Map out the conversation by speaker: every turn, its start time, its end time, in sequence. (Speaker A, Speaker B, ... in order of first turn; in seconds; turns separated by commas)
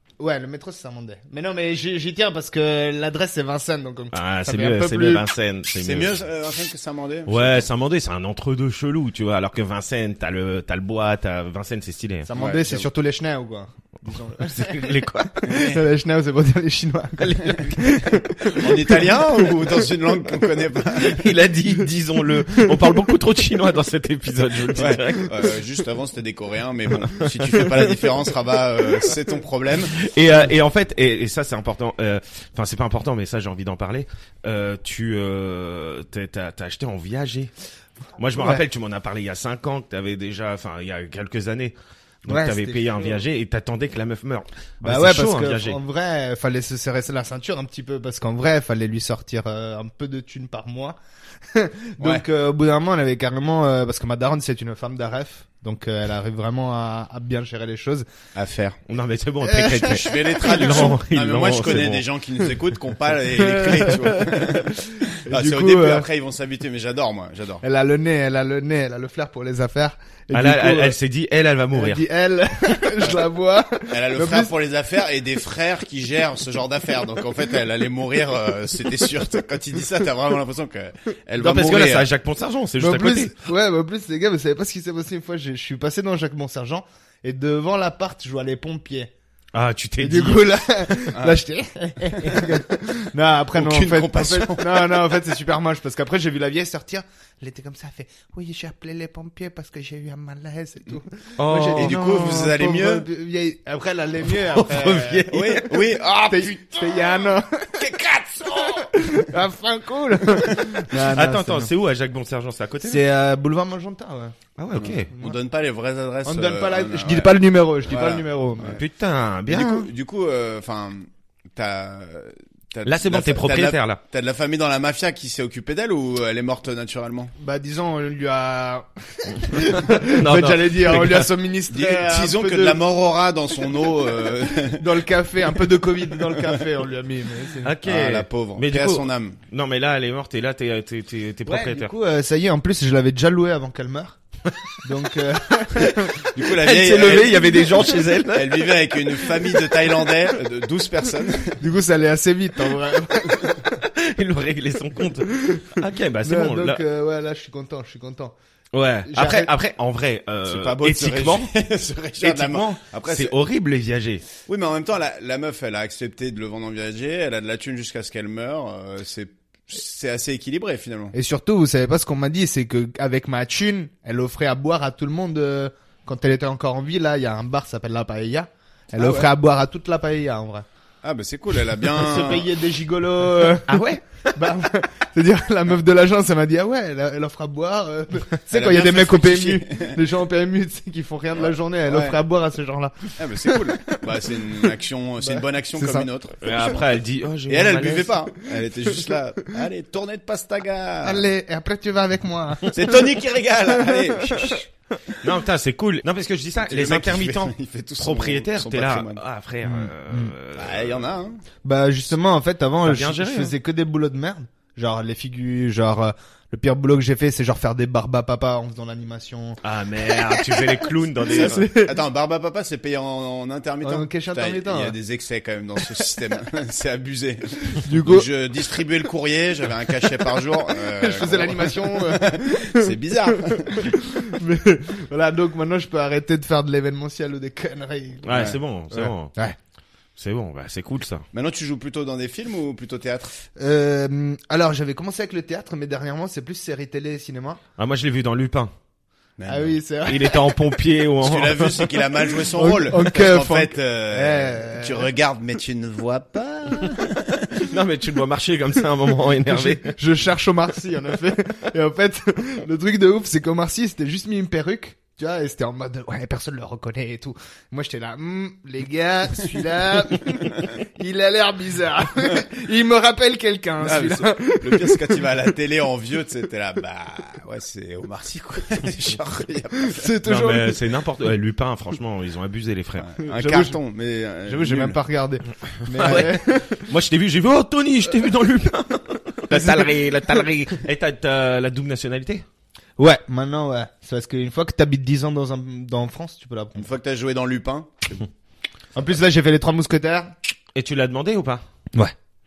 Speaker A: 0.2-5.3, Speaker B: 4.1-6.2, Speaker C: 5.8-7.7, Speaker B: 7.3-12.3, Speaker A: 12.2-14.9, Speaker C: 12.3-12.9, Speaker B: 14.4-15.6, Speaker C: 15.4-15.8, Speaker A: 15.5-18.9, Speaker C: 18.4-21.3, Speaker B: 21.0-25.6, Speaker C: 24.7-30.0, Speaker B: 27.0-27.9, Speaker B: 29.9-37.5, Speaker B: 38.2-45.8, Speaker A: 38.4-38.6, Speaker A: 42.3-43.2, Speaker A: 44.8-51.0, Speaker A: 51.5-58.0, Speaker C: 52.0-52.2, Speaker C: 58.3-58.8, Speaker B: 58.9-62.0, Speaker A: 59.4-60.9, Speaker C: 59.8-67.6, Speaker A: 63.4-66.1, Speaker A: 67.6-71.0, Speaker B: 70.3-72.0, Speaker A: 71.7-74.5, Speaker C: 73.9-82.1, Speaker B: 81.4-83.3, Speaker A: 82.8-89.1, Speaker B: 89.5-90.4, Speaker A: 90.0-105.6, Speaker C: 91.1-91.4, Speaker C: 93.5-95.0, Speaker B: 101.4-102.0, Speaker C: 101.8-103.0, Speaker B: 104.2-105.9, Speaker C: 105.3-107.2, Speaker A: 106.2-107.9, Speaker C: 107.8-108.9, Speaker A: 108.5-111.7, Speaker B: 110.9-113.0, Speaker A: 112.8-114.4, Speaker B: 114.6-115.1, Speaker C: 114.8-117.3, Speaker A: 116.2-118.8, Speaker C: 117.9-118.8, Speaker B: 118.8-119.9, Speaker C: 119.5-127.3, Speaker B: 122.8-124.0, Speaker A: 127.4-132.8, Speaker B: 129.4-131.3, Speaker C: 131.7-134.9, Speaker A: 134.6-137.7, Speaker B: 137.6-141.9, Speaker C: 137.8-139.4, Speaker A: 141.4-144.2, Speaker A: 144.8-146.2, Speaker C: 146.2-151.6, Speaker B: 146.4-148.8, Speaker A: 151.6-153.7, Speaker B: 153.7-156.8, Speaker A: 155.4-158.3, Speaker B: 158.7-161.5, Speaker A: 159.1-159.5, Speaker C: 160.4-163.4, Speaker B: 162.2-164.2, Speaker C: 164.4-171.1, Speaker A: 171.1-180.6, Speaker C: 178.9-179.3, Speaker C: 181.0-182.5, Speaker A: 181.8-194.7, Speaker B: 183.7-184.0, Speaker C: 188.5-190.0, Speaker C: 191.3-192.2, Speaker C: 193.2-196.9, Speaker A: 195.2-196.1, Speaker B: 196.4-198.2, Speaker C: 197.5-201.2, Speaker A: 201.0-203.1, Speaker C: 202.7-204.6, Speaker A: 203.8-204.5, Speaker B: 205.2-211.1, Speaker C: 206.7-209.2, Speaker A: 209.6-210.3, Speaker C: 210.6-211.4, Speaker A: 211.6-222.0, Speaker B: 212.8-213.5, Speaker B: 219.6-221.7, Speaker C: 221.3-233.9, Speaker A: 223.8-225.0, Speaker A: 227.7-228.3, Speaker A: 230.7-239.6, Speaker B: 238.2-239.3, Speaker C: 238.3-238.6, Speaker B: 240.2-241.2, Speaker C: 241.3-243.3, Speaker A: 243.6-247.6, Speaker B: 247.8-248.7, Speaker C: 249.4-249.8, Speaker A: 249.5-250.6, Speaker B: 250.0-252.0, Speaker C: 251.2-257.6, Speaker A: 252.5-255.1, Speaker B: 257.6-259.9, Speaker A: 259.4-275.2, Speaker C: 273.8-280.1, Speaker A: 279.8-280.8, Speaker B: 280.2-283.1, Speaker C: 283.0-285.0, Speaker A: 283.2-283.8, Speaker A: 284.4-286.9, Speaker B: 285.9-292.4, Speaker A: 289.5-290.5, Speaker A: 293.0-296.9, Speaker C: 296.8-298.2, Speaker A: 298.9-300.3, Speaker B: 300.7-301.6